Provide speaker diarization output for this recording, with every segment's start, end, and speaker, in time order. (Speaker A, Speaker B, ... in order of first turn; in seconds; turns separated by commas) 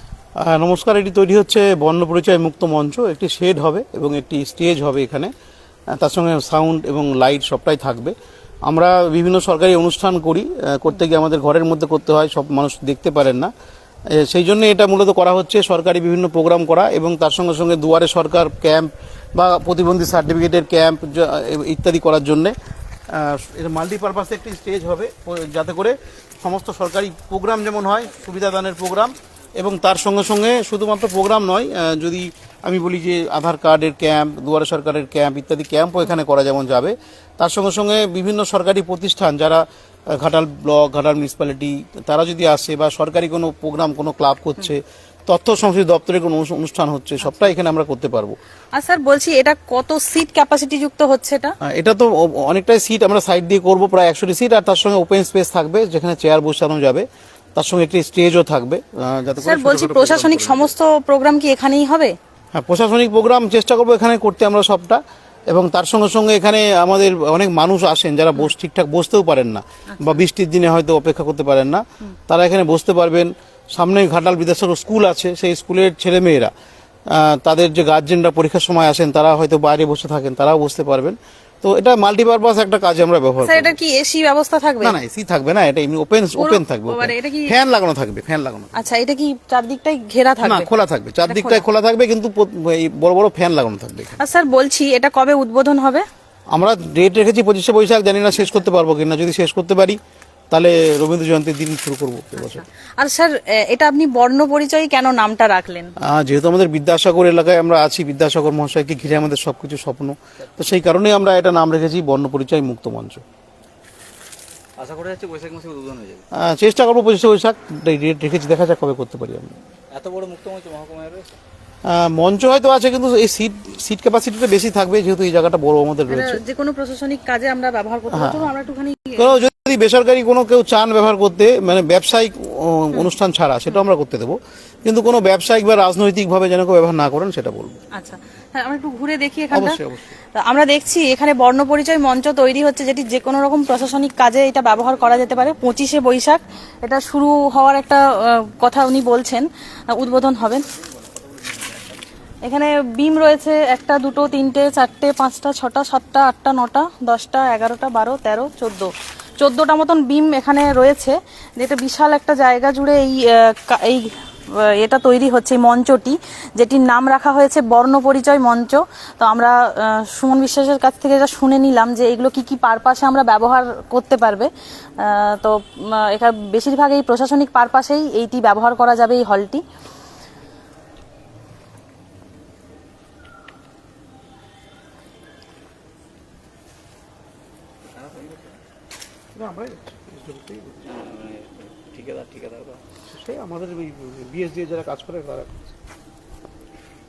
Speaker A: 0.4-5.3, Speaker A: 5.9-8.1, Speaker A: 8.7-13.5, Speaker A: 14.1-22.5, Speaker A: 23.1-39.6, Speaker A: 40.1-48.4, Speaker B: 48.7-51.5, Speaker A: 51.6-60.7, Speaker B: 59.4-62.1, Speaker A: 62.5-76.5, Speaker B: 69.9-70.2, Speaker A: 77.1-83.8, Speaker B: 83.4-85.0, Speaker A: 84.8-88.8, Speaker B: 86.4-87.5, Speaker B: 88.7-90.7, Speaker A: 90.4-94.2, Speaker B: 91.3-91.7, Speaker B: 94.2-96.0, Speaker A: 96.5-100.0, Speaker A: 100.5-102.6, Speaker B: 102.4-105.9, Speaker A: 106.0-113.2, Speaker C: 114.8-116.2, Speaker A: 116.3-119.5, Speaker C: 119.9-121.3, Speaker A: 121.8-126.4, Speaker B: 126.1-129.3, Speaker A: 128.1-128.5, Speaker A: 129.2-137.8, Speaker B: 137.9-139.8, Speaker A: 139.5-140.1, Speaker B: 140.3-150.6, Speaker B: 152.4-179.6, Speaker C: 187.9-188.5, Speaker A: 189.3-190.9, Speaker C: 190.9-192.8, Speaker A: 193.1-195.7